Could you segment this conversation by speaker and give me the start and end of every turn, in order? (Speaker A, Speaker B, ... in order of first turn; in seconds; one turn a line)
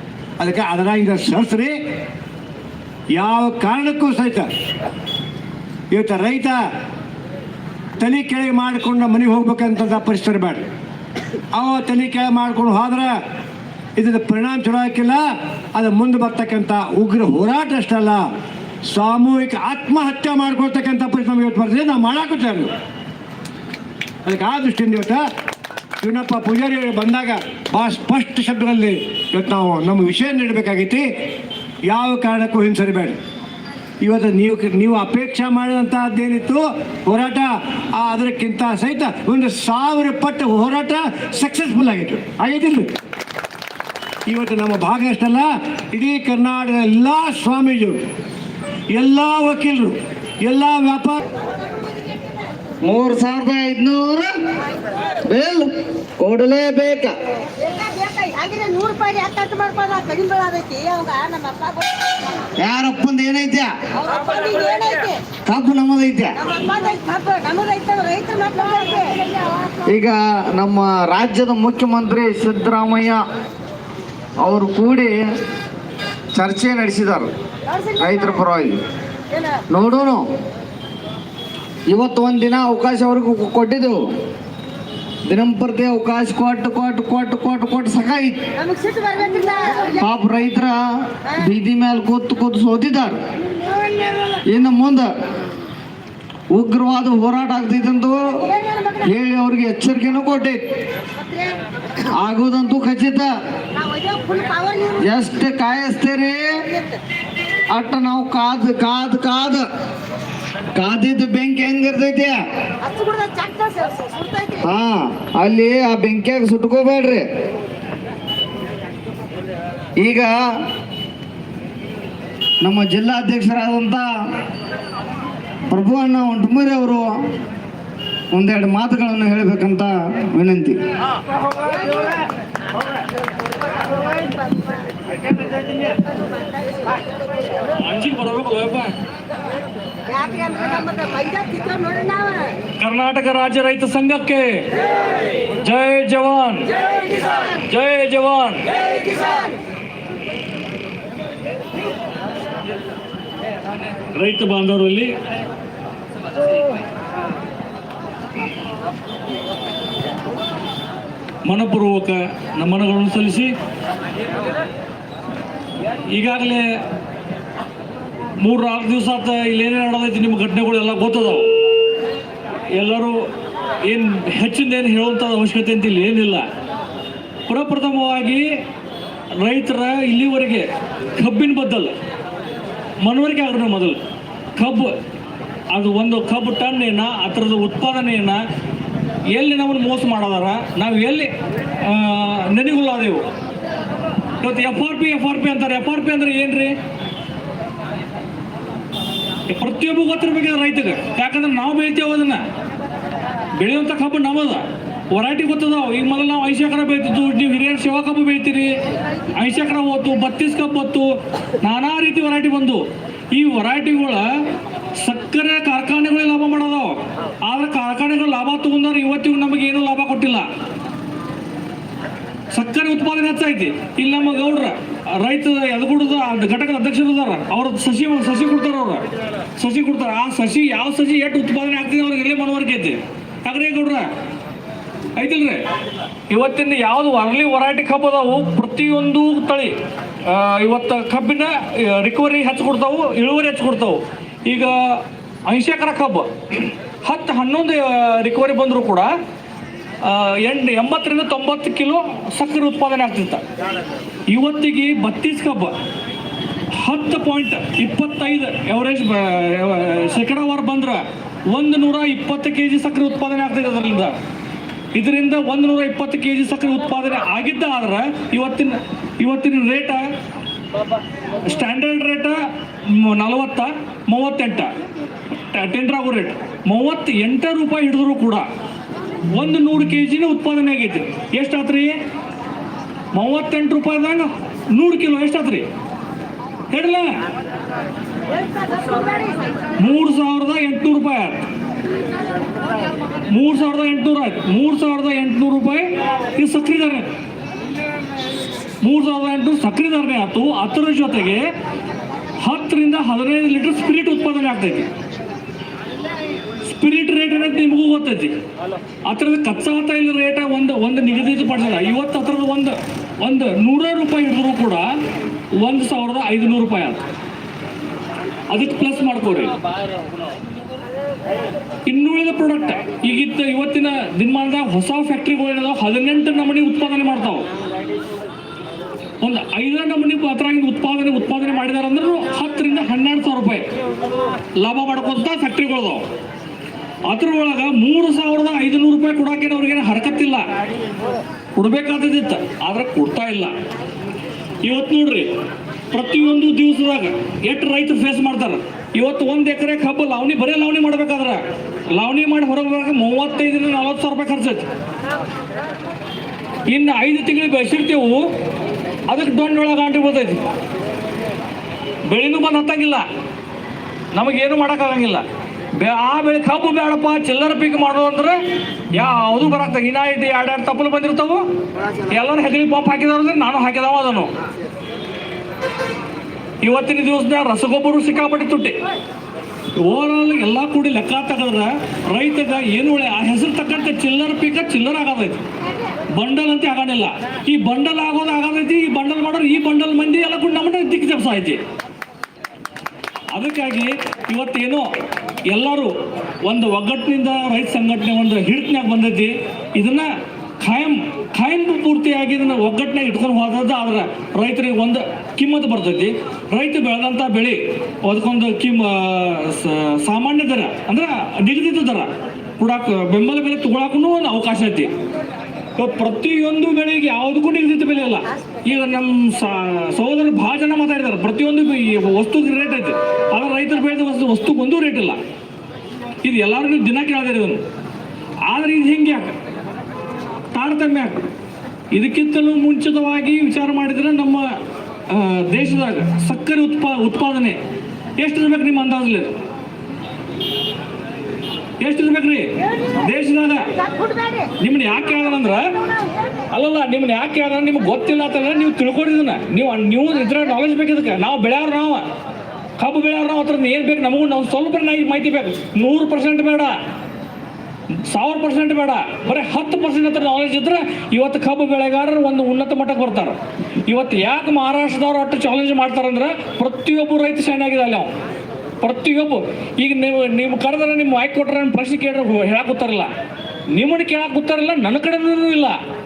Speaker A: 0.4-1.8
Speaker A: 3.1-4.5
Speaker A: 5.9-6.6
Speaker A: 8.0-10.7
Speaker A: 11.5-13.2
Speaker A: 13.9-15.2
Speaker A: 15.7-18.2
Speaker A: 18.9-22.7
Speaker A: 24.2-25.2
Speaker A: 26.0-31.1
Speaker A: 31.9-33.2
Speaker A: 34.0-42.9
Speaker A: 44.3-48.0
Speaker A: 48.9-51.2
Speaker B: 52.8-54.3
Speaker B: 55.2-57.1
Speaker C: 57.5-62.5
Speaker B: 62.6-63.8
Speaker C: 63.9-65.2
Speaker B: 65.5-66.3
Speaker C: 66.4-69.8
Speaker B: 69.8-73.2
Speaker B: 74.4-75.2
Speaker B: 76.3-77.3
Speaker C: 77.7-78.4
Speaker B: 78.0-78.8
Speaker C: 79.3-79.6
Speaker B: 79.7-80.3
Speaker B: 81.9-84.1
Speaker B: 85.2-88.4
Speaker C: 88.5-90.0
Speaker B: 90.0-93.2
Speaker C: 93.4-94.4
Speaker B: 94.4-95.1
Speaker B: 96.5-98.4
Speaker C: 98.4-99.1
Speaker B: 99.0-100.6
Speaker C: 101.1-101.6
Speaker B: 102.1-103.3
Speaker C: 103.7-105.1
Speaker B: 105.0-106.5
Speaker B: 107.7-109.7
Speaker B: 110.7-112.4
Speaker C: 112.8-114.7
Speaker B: 114.7-117.2
Speaker B: 120.0-120.4
Speaker B: 122.6-124.1
Speaker B: 125.7-127.0
Speaker B: 128.3-130.8
Speaker C: 131.7-132.2
Speaker C: 135.6-137.1
Speaker D: 137.8-138.9
Speaker C: 140.1-142.5
Speaker D: 142.8-144.7
Speaker D: 145.6-146.7
Speaker D: 147.7-148.6
Speaker C: 148.8-149.6
Speaker D: 154.1-155.1
Speaker D: 161.4-163.5
Speaker D: 166.1-166.8
Speaker D: 168.4-171.6
Speaker D: 172.7-173.3
Speaker D: 173.8-176.5
Speaker D: 177.5-178.6
Speaker D: 179.4-181.9
Speaker D: 183.0-184.0
Speaker D: 184.6-184.9
Speaker D: 185.7-188.4
Speaker D: 189.3-193.2
Speaker D: 194.4-196.7
Speaker D: 199.5-202.4
Speaker D: 203.5-208.7
Speaker D: 209.3-214.3
Speaker D: 215.0-220.4
Speaker D: 222.5-229.1
Speaker D: 229.6-234.1
Speaker D: 235.2-235.6
Speaker D: 236.3-239.7
Speaker D: 240.2-249.1
Speaker D: 250.0-253.4
Speaker D: 254.3-255.7
Speaker D: 256.7-264.1
Speaker D: 264.9-270.1
Speaker D: 271.4-274.7
Speaker D: 275.5-278.4
Speaker D: 279.3-281.9
Speaker D: 283.1-285.6
Speaker D: 286.7-287.1
Speaker C: 288.3-289.7
Speaker D: 289.8-291.5
Speaker D: 293.3-297.1
Speaker D: 298.8-301.5
Speaker D: 302.4-304.9
Speaker D: 306.6-308.3
Speaker D: 309.1-314.9
Speaker D: 315.6-317.0
Speaker D: 318.5-319.5
Speaker D: 321.9-327.5
Speaker D: 329.2-333.7
Speaker D: 334.6-336.0
Speaker D: 337.1-340.4
Speaker D: 341.6-343.5
Speaker D: 344.6-345.3
Speaker D: 345.9-351.4
Speaker D: 351.9-354.7
Speaker D: 356.7-358.3
Speaker D: 359.1-360.4
Speaker D: 362.1-363.0
Speaker D: 364.1-365.2
Speaker D: 365.8-368.4
Speaker D: 368.9-371.4
Speaker D: 372.1-374.3
Speaker D: 376.6-378.8
Speaker D: 379.8-385.4
Speaker D: 386.2-391.6
Speaker D: 393.3-394.9
Speaker D: 395.5-395.9
Speaker D: 396.4-400.1
Speaker D: 400.6-414.9
Speaker D: 415.8-425.2
Speaker D: 426.2-427.6
Speaker D: 428.5-429.3
Speaker D: 430.5-431.2
Speaker D: 431.9-434.5
Speaker D: 435.1-437.6
Speaker D: 438.2-439.3
Speaker D: 441.8-443.7
Speaker C: 442.7-443.0
Speaker C: 443.7-444.5
Speaker D: 444.6-445.7
Speaker C: 445.1-446.4
Speaker D: 446.5-452.0
Speaker D: 452.8-456.7
Speaker D: 458.1-468.1
Speaker D: 468.8-473.1
Speaker D: 473.7-475.8